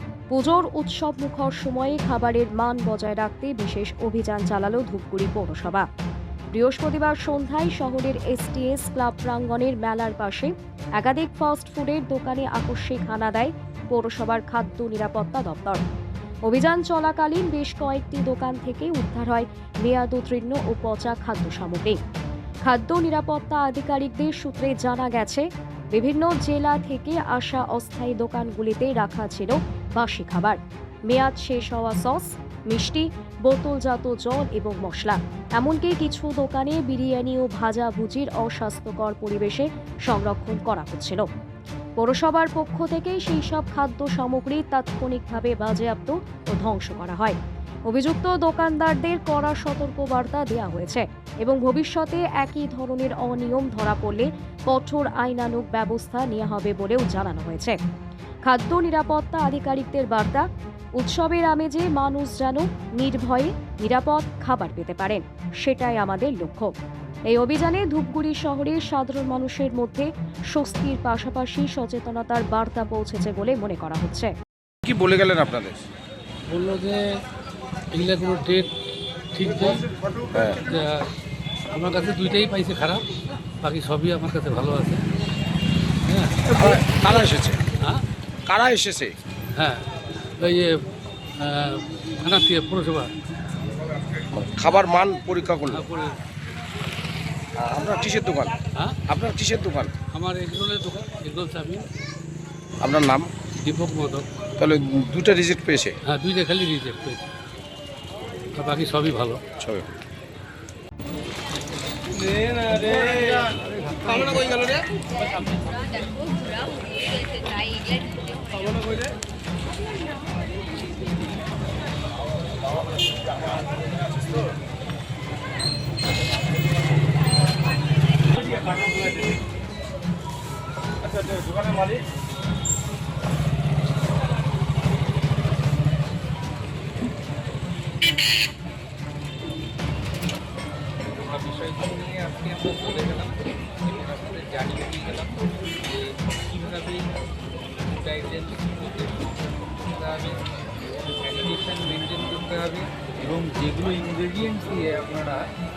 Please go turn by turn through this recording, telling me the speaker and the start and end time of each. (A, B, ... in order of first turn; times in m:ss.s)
0:00.3-0:05.9 A
0:06.6-0:15.8 A
0:16.5-0:22.0 A
0:22.7-0:30.6 A
0:31.1-0:41.3 A
0:42.0-0:47.4 A
0:47.9-0:57.8 A
0:58.5-1:00.4 A
1:01.0-1:06.7 A
1:07.3-1:14.3 A
1:14.8-1:15.8 B
1:16.5-1:17.0 C
1:17.9-1:18.7 C
1:19.3-1:19.9 C
1:20.3-1:20.6 B
1:20.6-1:21.1 C
1:21.7-1:23.0 C
1:23.6-1:25.0 C
1:26.0-1:26.7 C
1:26.5-1:27.6 B
1:28.5-1:29.2 B
1:29.6-1:29.8 C
1:30.4-1:30.7 C
1:31.4-1:33.1 C
1:34.3-1:35.8 B
1:35.7-1:36.2 C
1:37.6-1:38.5 B
1:39.1-1:39.9 B
1:40.1-1:41.8 C
1:42.8-1:43.3 B
1:43.6-1:44.2 C
1:44.6-1:46.0 B
1:46.0-1:47.3 C
1:48.6-1:49.4 C
1:49.6-1:49.9 B
1:52.4-1:54.7 C
1:55.0-1:59.1 D
2:11.1-2:11.9 B
2:21.1-2:27.1 E
2:27.8-2:35.4 E